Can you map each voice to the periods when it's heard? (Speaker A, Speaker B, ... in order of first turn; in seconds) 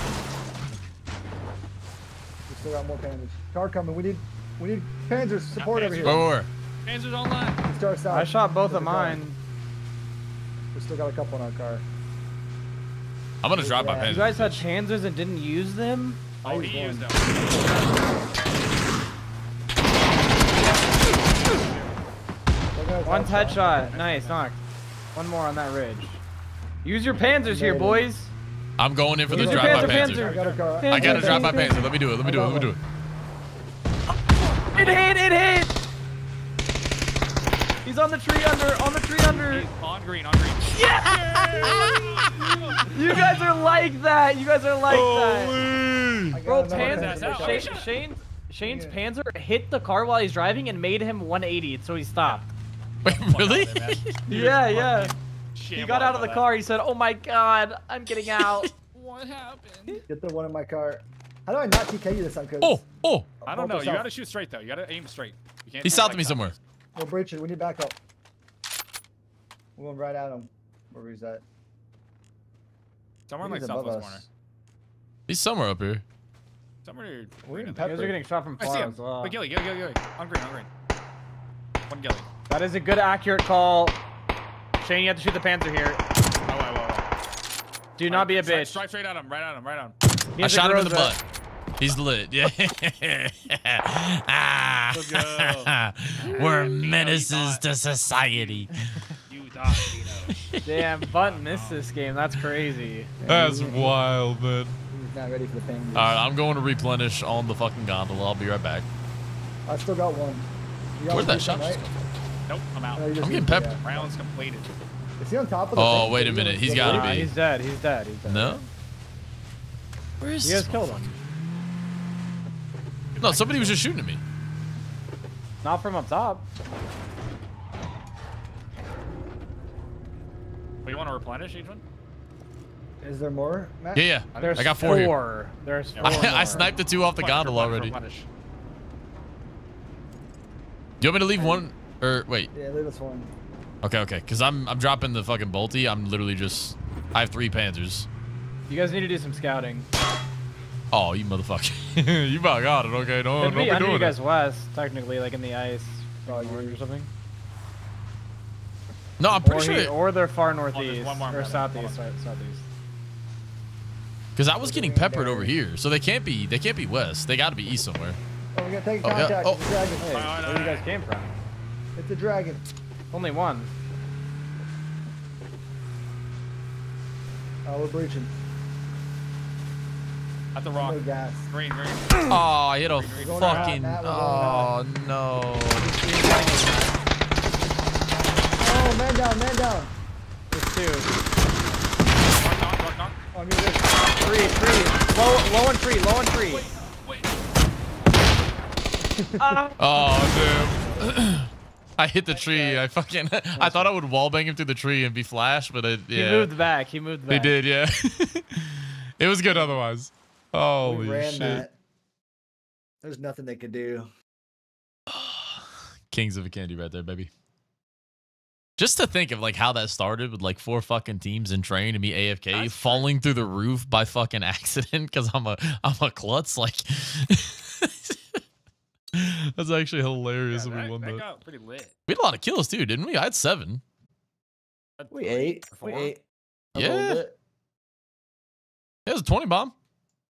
Speaker A: 2.5-6.3, 7.6-9.2, 10.7-11.9, 13.6-14.2, 16.4-17.1, 22.8-23.9, 27.1-28.1, 29.3-32.8, 46.3-47.8, 48.6-49.0, 60.1-62.8, 63.4-64.1, 67.0-68.0, 69.8-71.4, 73.4-74.3, 77.5-78.2, 103.2-104.0, 104.9-106.2, 109.7-111.8, 112.9-114.1, 115.2-117.3, 133.0-134.1, 141.3-141.7, 142.5-143.3, 156.3-156.8, 164.6-165.6, 168.5-170.3, 172.0-172.7, 177.7-178.3, 180.8-181.5, 183.2-184.7, 188.6-189.9, 193.3-194.2, 199.1-199.6, 200.8-201.2, 202.3-202.9, 203.6-203.9, 209.5-209.7, 210.8-211.8, 213.0-214.1, 235.1-236.2, 236.7-237.4
Speaker B: 5.6-6.2, 6.8-7.6, 16.4-18.5, 20.6-22.1, 23.8-24.4, 29.5-30.7, 39.2-41.0, 41.6-42.9, 46.7-48.0, 53.0-56.5, 58.9-60.0, 63.5-66.6, 73.3-74.2, 76.8-77.9, 78.6-80.7, 81.9-82.3, 86.5-87.1, 88.0-90.0, 94.9-97.6, 98.2-98.7, 99.3-100.3, 101.2-101.8, 112.5-113.1, 113.8-114.7, 123.2-123.8, 130.9-131.8, 134.3-135.1, 135.9-138.3, 160.7-162.1, 170.0-170.9, 180.6-183.8, 192.3-193.2, 196.5-197.3, 222.5-223.1, 230.5-231.9, 235.0-236.2
Speaker C: 6.0-6.5, 13.4-14.7, 28.8-30.2, 30.9-32.8, 40.8-43.0, 44.9-46.4, 53.0-54.1, 58.3-58.7, 62.6-63.3, 65.8-66.5, 75.3-76.0, 90.4-91.2, 91.8-99.0, 99.7-100.8, 103.3-104.8, 106.0-108.9, 111.1-112.0, 113.2-113.7, 115.8-117.3, 118.2-118.6, 120.2-121.2, 123.2-124.2, 133.9-135.2, 136.0-138.0, 141.0-142.5, 143.8-148.1, 150.9-154.2, 159.2-159.9, 164.3-168.2, 169.0-169.6, 182.3-185.9, 199.8-206.5, 207.3-211.7, 215.1-217.3, 218.8-228.4, 229.1-231.2, 232.1-233.8, 236.8-237.2, 239.1-239.7
Speaker D: 8.1-9.4, 14.1-16.2, 23.1-24.6, 25.1-26.2, 26.8-28.3, 29.3-31.9, 34.7-35.7, 37.9-39.7, 40.8-42.1, 42.8-45.6, 46.4-52.5, 54.3-55.1, 55.7-58.7, 77.8-79.4, 82.5-84.0, 84.8-86.0, 88.0-88.8, 90.4-91.2, 100.7-103.1, 116.8-118.7, 120.4-121.1, 125.6-126.5, 134.4-136.8, 148.7-149.9, 153.4-157.1, 159.4-162.7, 170.0-171.4, 173.1-173.7, 185.8-187.0, 190.5-191.1, 194.2-196.7, 199.4-199.8, 206.1-207.6